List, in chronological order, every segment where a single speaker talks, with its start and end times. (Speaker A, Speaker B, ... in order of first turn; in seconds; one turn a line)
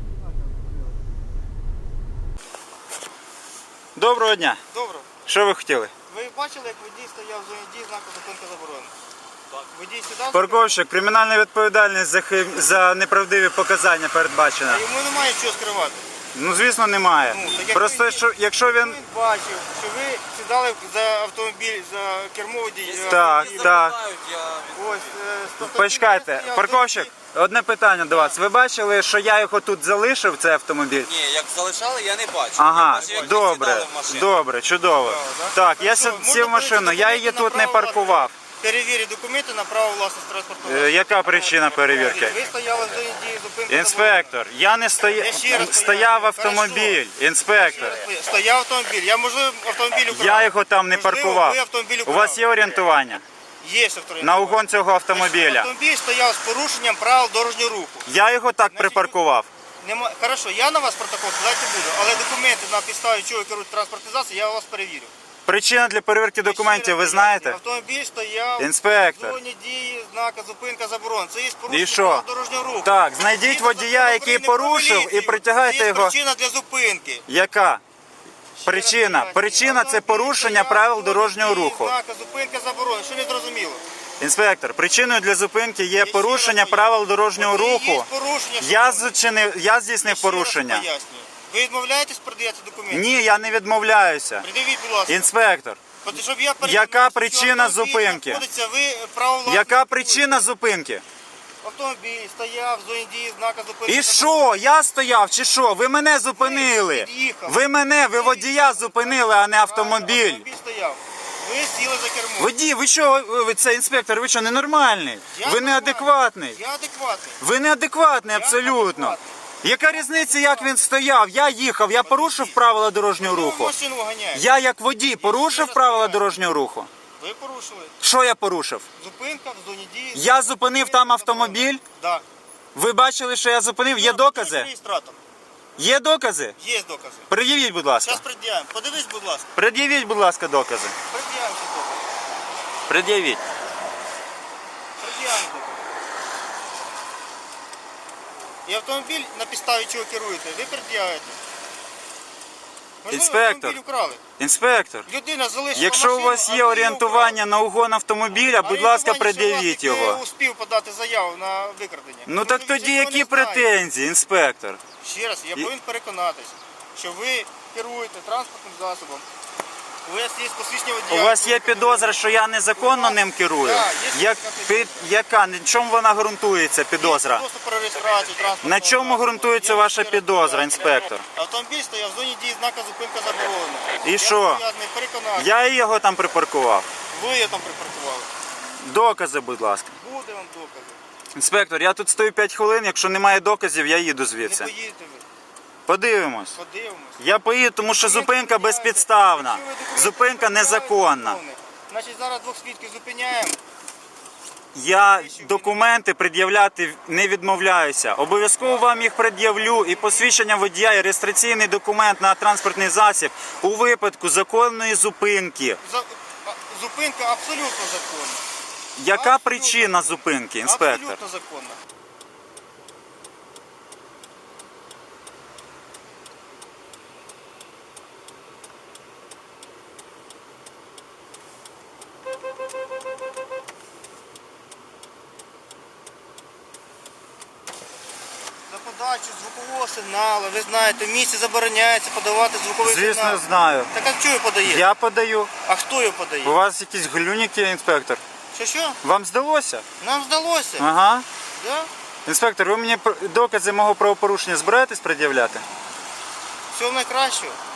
Speaker A: 3.9-4.6
Speaker B: 4.7-5.1
Speaker A: 5.2-5.9
Speaker B: 6.1-8.9
Speaker B: 9.6-10.8
Speaker A: 10.3-14.8
Speaker B: 14.7-16.0
Speaker A: 16.3-19.0
Speaker B: 17.3-23.8
Speaker C: 22.9-25.0
Speaker A: 23.1-24.0
Speaker B: 24.7-27.1
Speaker A: 25.6-31.1
Speaker C: 31.0-34.3
Speaker A: 32.5-38.3
Speaker B: 35.0-41.0
Speaker A: 40.6-42.4
Speaker B: 41.9-44.4
Speaker A: 43.7-48.0
Speaker B: 45.1-52.4
Speaker A: 50.1-53.2
Speaker B: 53.6-58.1
Speaker A: 54.2-55.7
Speaker A: 58.0-59.5
Speaker B: 58.7-59.1
Speaker B: 59.8-65.1
Speaker A: 65.5-67.6
Speaker B: 66.4-77.2
Speaker A: 68.6-69.3
Speaker A: 71.7-72.2
Speaker A: 72.8-76.1
Speaker A: 77.3-77.8
Speaker B: 78.6-83.8
Speaker A: 78.7-81.9
Speaker A: 84.2-88.1
Speaker B: 86.0-89.2
Speaker A: 88.6-90.8
Speaker B: 90.0-93.2
Speaker A: 92.9-94.4
Speaker B: 94.4-95.3
Speaker A: 95.1-95.8
Speaker B: 96.0-100.4
Speaker A: 96.6-98.4
Speaker A: 99.5-101.0
Speaker B: 101.6-104.5
Speaker A: 103.9-110.4
Speaker B: 106.3-112.5
Speaker A: 112.4-116.6
Speaker B: 115.3-117.4
Speaker A: 117.4-123.7
Speaker B: 118.3-120.9
Speaker B: 122.0-122.6
Speaker B: 123.2-124.5
Speaker A: 124.3-126.9
Speaker B: 125.2-126.3
Speaker B: 127.2-127.9
Speaker A: 128.0-128.8
Speaker B: 128.9-132.2
Speaker A: 130.1-131.8
Speaker A: 132.7-134.7
Speaker B: 133.9-135.2
Speaker A: 135.8-136.6
Speaker B: 136.6-137.3
Speaker A: 137.3-138.2
Speaker B: 138.0-139.5
Speaker A: 139.6-140.9
Speaker B: 141.1-142.0
Speaker A: 142.9-143.4
Speaker B: 145.0-145.8
Speaker B: 148.7-151.3
Speaker B: 153.0-154.2
Speaker A: 153.1-153.8
Speaker A: 154.4-155.1
Speaker B: 155.1-157.4
Speaker A: 155.7-160.2
Speaker B: 158.3-163.7
Speaker A: 162.2-164.8
Speaker B: 165.0-169.2
Speaker B: 170.0-175.1
Speaker A: 171.1-177.4
Speaker B: 177.0-185.5
Speaker A: 178.6-181.2
Speaker A: 184.0-184.6
Speaker A: 185.3-186.8
Speaker B: 187.1-188.3
Speaker A: 188.8-189.9
Speaker B: 190.0-191.0
Speaker A: 191.3-194.7
Speaker B: 194.4-195.2
Speaker A: 195.9-196.6
Speaker B: 196.5-197.2
Speaker A: 197.2-201.4
Speaker B: 197.8-203.6
Speaker A: 204.7-215.8
Speaker B: 204.9-205.8
Speaker B: 208.6-209.1
Speaker B: 209.7-210.3
Speaker B: 215.8-218.4
Speaker A: 219.0-221.2
Speaker B: 219.1-221.8
Speaker B: 238.7-244.8
Speaker A: 242.8-243.9
Speaker A: 244.6-245.5
Speaker B: 245.6-246.5
Speaker A: 246.4-248.2
Speaker B: 248.5-249.0
Speaker A: 249.0-249.8
Speaker B: 250.0-250.8
Speaker A: 250.8-251.2
Speaker B: 251.5-251.9
Speaker A: 252.2-255.6
Speaker B: 256.7-257.6